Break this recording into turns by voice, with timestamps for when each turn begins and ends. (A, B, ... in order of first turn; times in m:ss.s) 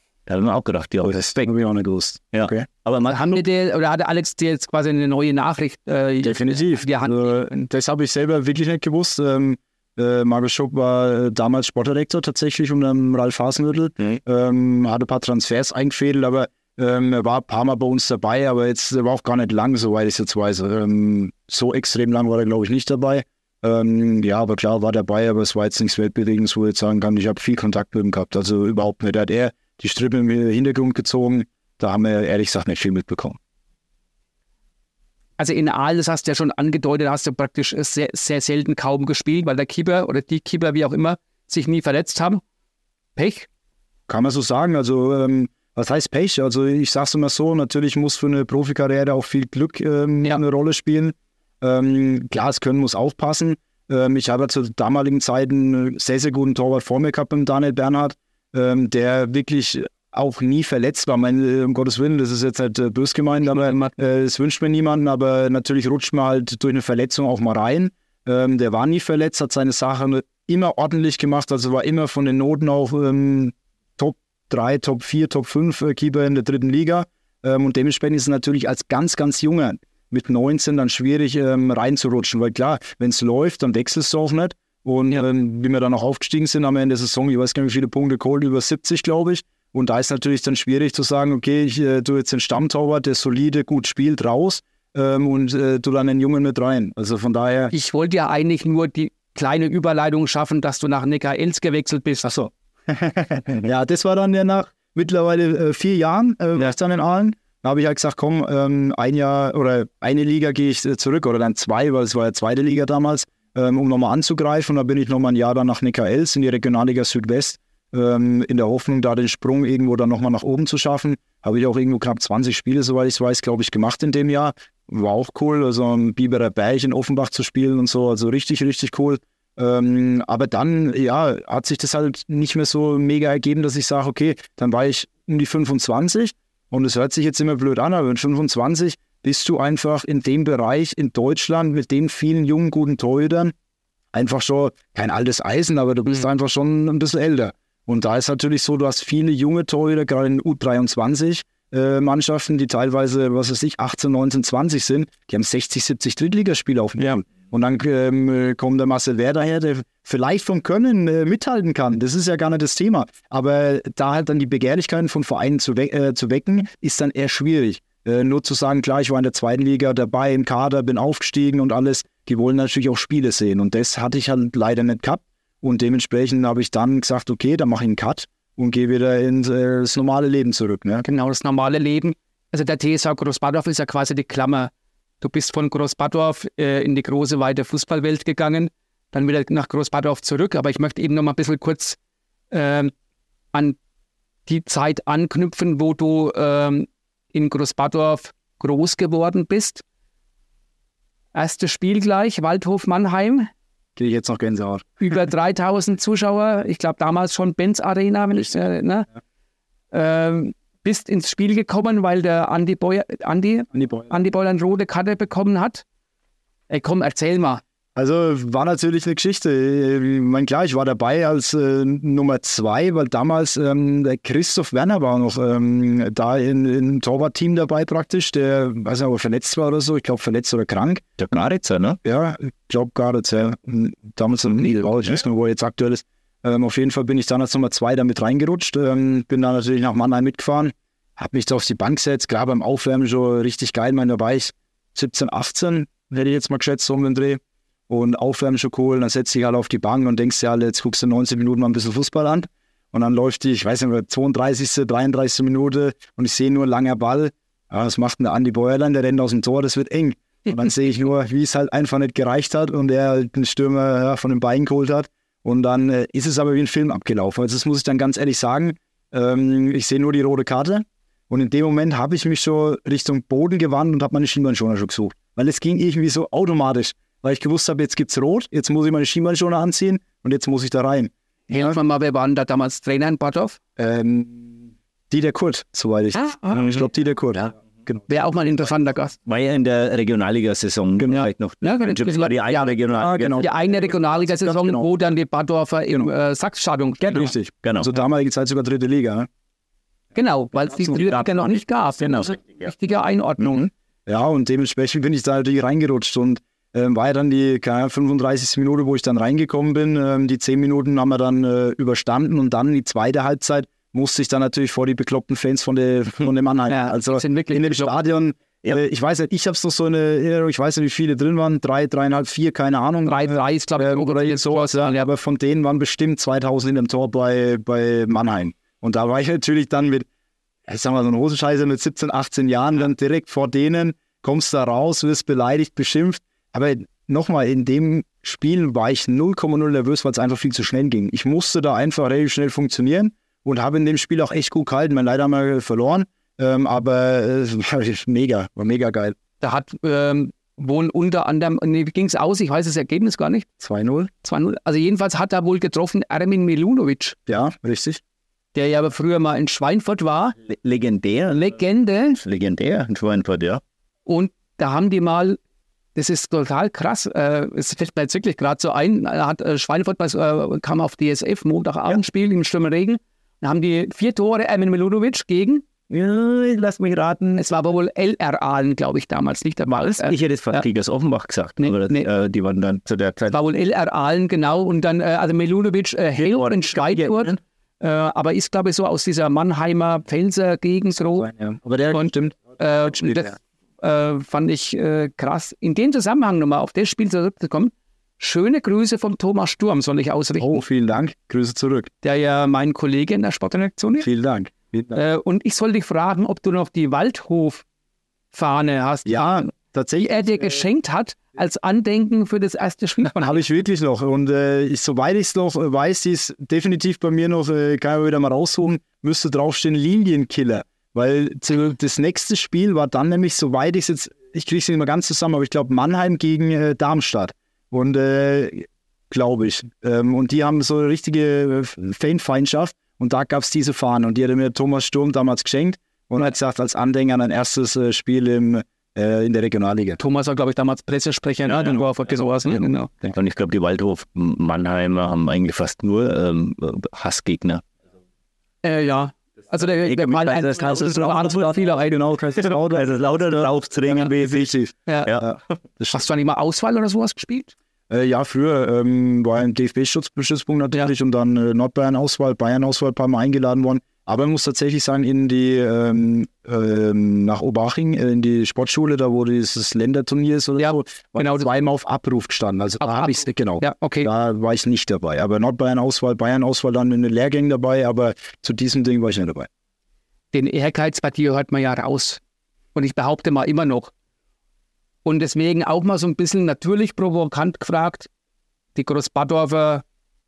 0:00.3-0:01.5 A
0:01.4-0:02.7 B
0:02.3-0:03.4 A
0:03.1-0:07.7 C
0:06.2-0:33.4 B
0:35.4-0:42.4 C
0:43.2-0:43.5 C
0:44.1-1:37.7 B
1:03.4-1:03.9 C
1:37.7-1:42.3 C
1:42.2-2:23.5 B
2:24.1-3:01.0 B
3:01.0-3:12.0 C
3:12.5-3:12.9 C
3:13.5-3:13.8 C
3:14.5-3:19.8 C
3:21.3-3:23.5 C
3:24.0-3:24.9 B
3:25.0-3:29.1 C
3:29.9-3:35.8 C
3:33.7-3:34.1 B
3:36.7-3:37.6 C
3:38.0-3:51.0 B
3:51.2-3:52.0 A
3:52.0-4:41.8 B
4:41.5-4:43.6 C
4:43.8-4:48.0 B
4:46.2-4:46.5 C
4:48.1-4:49.2 C
4:49.2-4:53.4 A
4:51.0-4:52.8 C
4:53.0-4:53.5 B
4:53.4-4:57.4 C
4:54.3-4:54.8 B
4:57.1-4:59.3 B
4:57.6-4:57.9 A
5:00.2-5:03.7 C
5:02.0-5:02.3 A
5:04.1-5:30.1 B
5:16.7-5:17.9 C
5:23.1-5:25.1 C
5:30.7-5:49.2 B
5:49.4-5:53.5 C
5:53.6-5:54.1 B
5:54.2-5:57.2 C
5:57.3-5:58.0 B
5:58.5-6:00.4 C
6:00.5-6:01.5 A
6:01.3-6:02.2 C
6:02.2-6:03.6 A
6:04.1-6:05.4 C
6:06.0-6:15.6 C
6:15.9-6:17.4 A
6:17.4-6:20.6 C
6:19.7-6:23.4 A
6:21.6-6:22.1 C
6:23.3-6:31.3 C
6:26.2-6:27.4 A
6:31.2-6:33.4 B
6:31.9-6:40.6 C
6:40.4-6:41.9 B
6:42.0-6:44.1 C
6:44.0-6:45.0 B
6:44.9-6:47.6 C
6:48.3-6:49.5 C
6:49.1-6:50.6 B
6:50.0-6:53.4 C
6:53.2-7:20.0 B
7:20.0-7:22.9 C
7:23.1-7:27.6 A
7:28.6-7:32.0 C
7:29.8-7:31.5 A
7:31.0-7:32.9 B
7:32.5-7:34.5 A
7:33.9-7:36.0 B
7:34.9-7:35.1 C
7:35.9-7:37.5 C
7:37.9-7:59.5 B
7:50.6-7:51.5 C
7:52.8-7:54.1 C
8:00.3-8:02.2 C
8:02.8-8:03.9 C
8:05.0-8:08.1 C
8:08.8-8:09.8 C